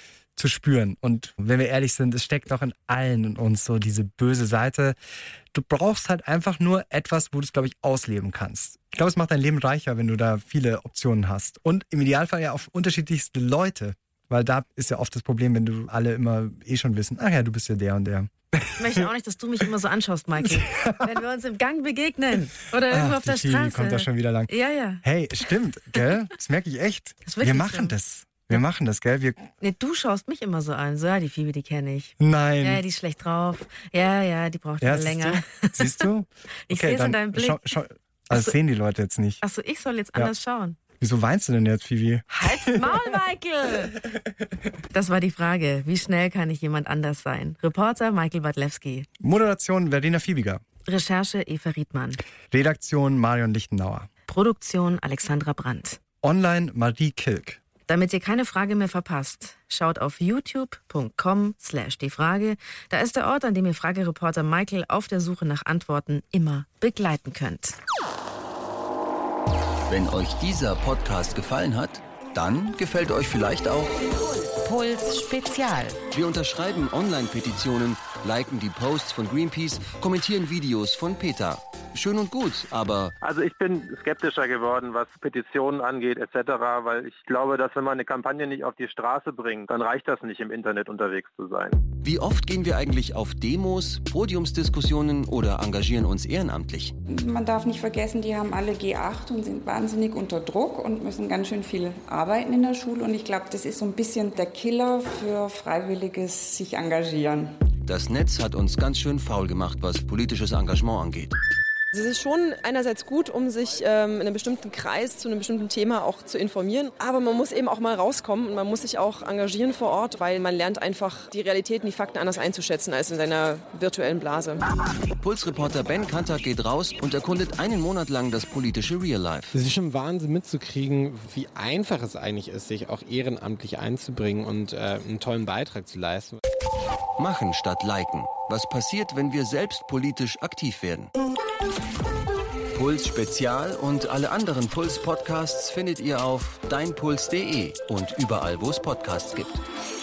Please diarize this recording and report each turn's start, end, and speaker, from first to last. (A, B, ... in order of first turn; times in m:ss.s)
0:00.4-0:05.0 A
0:05.5-0:18.3 A
0:18.8-0:25.0 B
0:20.4-0:21.0 A
0:22.9-0:24.5 A
0:25.0-0:29.5 A
0:27.2-0:27.9 B
0:29.6-0:36.1 B
0:32.2-0:32.8 A
0:34.8-0:39.4 A
0:36.7-0:37.8 B
0:38.3-0:38.6 B
0:39.4-0:40.8 B
0:41.0-0:43.0 A
0:42.4-0:44.0 B
0:44.9-0:49.1 B
0:49.2-0:50.6 A
0:50.8-0:52.2 B
0:52.5-0:54.1 A
0:54.3-0:56.0 B
0:56.2-0:57.6 A
0:57.9-1:07.8 B
1:09.9-1:14.0 C
1:16.1-1:23.1 C
1:23.2-1:31.8 D
1:32.0-1:37.0 C
1:37.1-1:47.5 E
1:47.8-1:51.4 C
1:51.9-2:04.6 F
2:05.2-2:09.6 C
2:09.6-2:16.4 G
2:17.2-2:21.1 C
2:22.7-2:29.6 C